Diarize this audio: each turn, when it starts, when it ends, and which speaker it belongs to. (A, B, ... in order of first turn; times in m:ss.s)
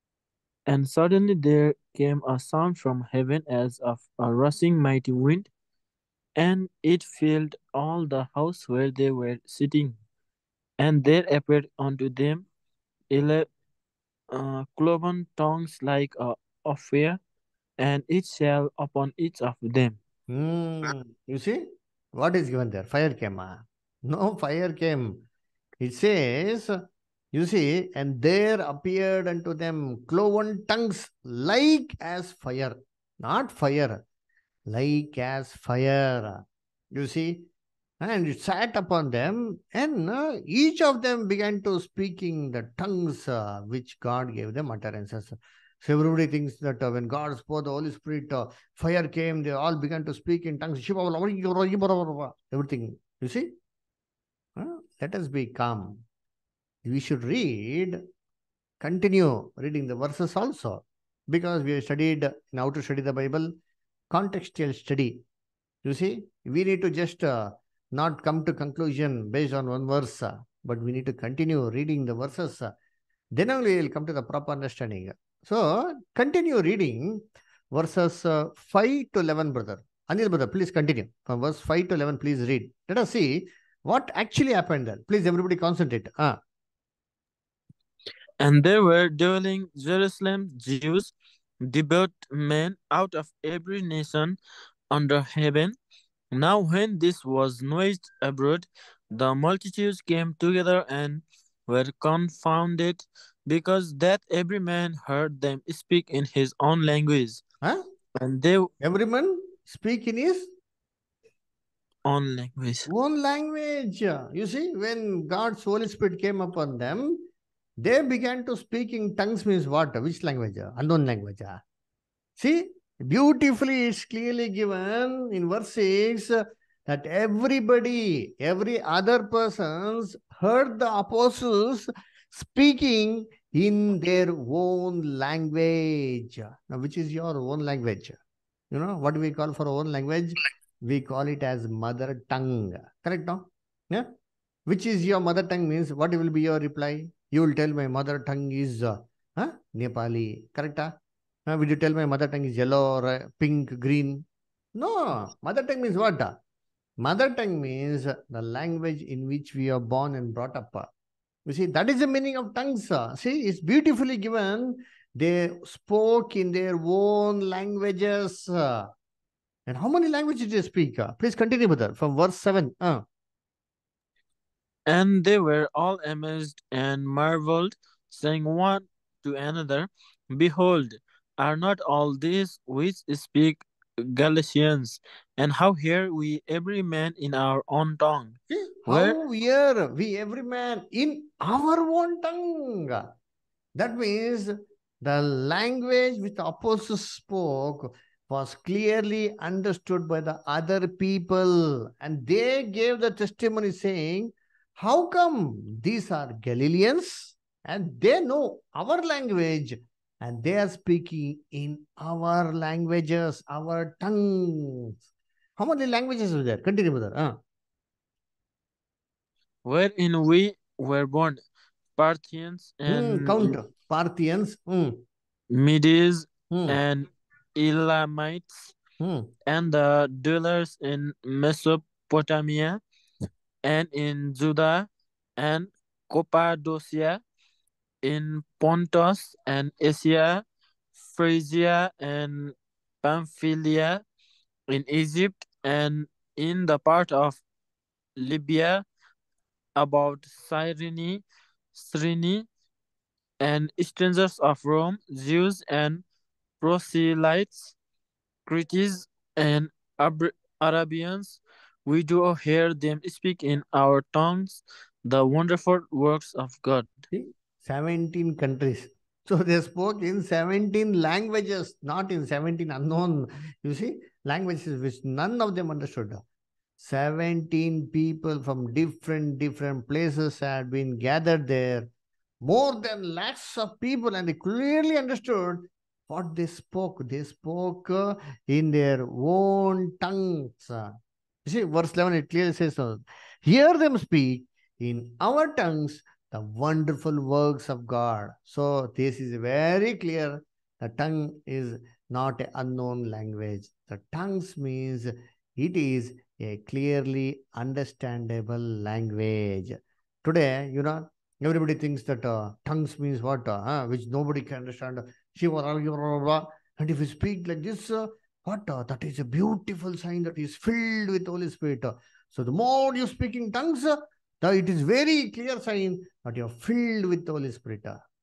0:00.7-0:05.5 A
0:06.4-0:10.0 A
0:10.8-0:12.4 A
0:13.1-0:13.5 A
0:14.3-0:17.2 A
0:17.8-0:20.0 A
0:20.3-0:25.2 B
0:25.8-0:26.8 B
0:27.3-0:34.0 B
0:34.7-0:37.5 B
0:38.0-0:53.5 B
0:54.6-0:56.0 B
0:56.8-0:58.0 B
0:58.8-1:03.5 B
1:04.1-1:05.2 B
1:05.8-1:12.7 B
1:13.3-1:26.4 B
1:28.4-1:34.4 A
1:34.9-1:35.8 A
1:36.3-1:47.4 A
1:48.2-1:48.7 A
1:48.8-1:50.5 B
1:52.0-1:52.9 A
1:52.9-1:57.3 B
1:57.8-2:01.6 B
2:02.4-2:18.2 B
2:18.7-2:24.1 B
2:24.7-2:30.9 B
2:31.5-2:34.2 B
2:34.7-2:36.4 B
2:37.0-2:40.9 B
2:41.4-2:48.9 B
2:49.7-2:53.0 B
2:54.9-3:09.2 A
3:08.5-3:13.1 B
3:13.8-3:34.9 B
3:35.6-3:37.4 B
3:39.6-3:41.4 A
3:42.0-3:43.6 A
3:42.8-3:45.0 B
3:45.5-3:48.7 A
3:46.5-3:46.8 B
3:49.0-3:49.3 B
3:49.4-3:52.8 A
3:53.6-3:57.2 A
3:58.0-4:00.4 A
4:01.0-4:04.0 A
4:04.7-4:07.4 A
4:08.2-4:08.8 A
4:09.8-4:11.2 A
4:11.7-4:12.5 A
4:13.4-4:16.0 A
4:16.6-4:17.7 A
4:18.4-4:27.0 A
4:27.1-4:36.2 B
4:36.8-4:41.9 B
4:42.4-4:50.9 B
4:51.4-5:28.0 B